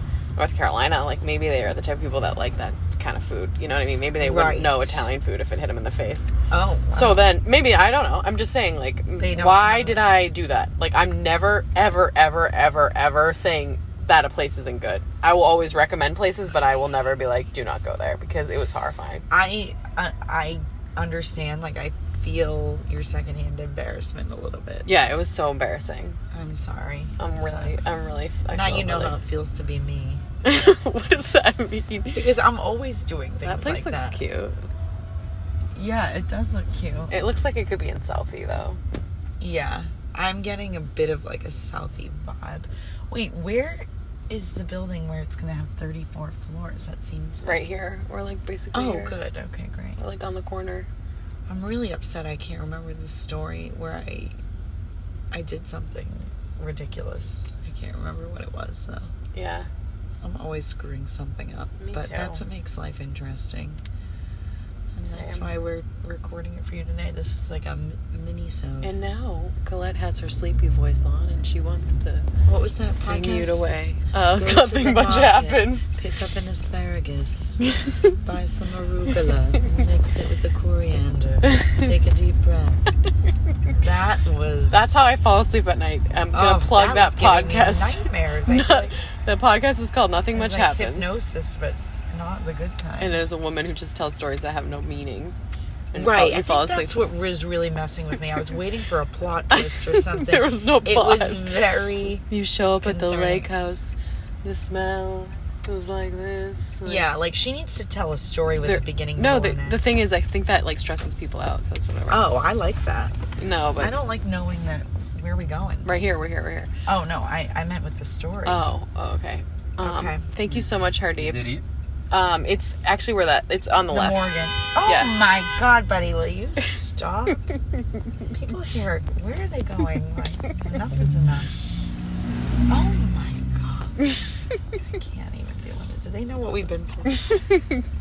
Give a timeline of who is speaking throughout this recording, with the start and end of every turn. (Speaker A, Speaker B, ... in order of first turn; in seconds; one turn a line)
Speaker A: 0.4-6.3
Speaker B: 4.2-5.1
Speaker B: 6.5-7.2
Speaker A: 6.9-19.2
Speaker B: 9.2-10.2
Speaker B: 19.3-24.9
Speaker A: 24.8-26.2
Speaker B: 26.3-30.2
Speaker A: 27.2-29.1
Speaker A: 30.4-32.3
Speaker B: 32.1-34.2
Speaker A: 33.4-34.7
Speaker B: 35.7-37.1
Speaker A: 37.1-38.8
Speaker B: 39.4-47.6
Speaker A: 47.4-49.1
Speaker B: 48.7-50.0
Speaker A: 50.0-50.9
Speaker B: 51.5-54.4
Speaker B: 55.3-59.1
Speaker A: 59.3-59.7
Speaker B: 60.2-63.8
Speaker A: 61.8-62.4
Speaker B: 64.9-68.9
Speaker A: 65.0-65.5
Speaker A: 68.8-72.3
Speaker B: 72.5-73.7
Speaker A: 72.8-76.0
Speaker B: 74.3-77.7
Speaker B: 78.2-82.8
Speaker A: 81.5-81.8
Speaker B: 83.7-85.0
Speaker A: 84.7-91.1
Speaker B: 86.3-89.0
Speaker B: 90.3-93.2
Speaker A: 93.0-95.3
Speaker A: 95.9-97.1
Speaker B: 95.9-102.2
Speaker A: 99.5-101.5
Speaker A: 102.3-107.1
Speaker B: 102.8-103.5
Speaker B: 106.8-109.8
Speaker A: 108.6-112.2
Speaker B: 112.1-113.1
Speaker A: 113.4-114.0
Speaker B: 113.8-116.0
Speaker A: 115.8-116.7
Speaker B: 116.8-118.7
Speaker A: 118.4-121.6
Speaker B: 119.8-120.2
Speaker A: 122.1-124.3
Speaker B: 123.9-127.4
Speaker A: 124.8-125.2
Speaker B: 128.3-131.5
Speaker B: 132.7-134.0
Speaker B: 134.9-137.2
Speaker A: 137.1-137.8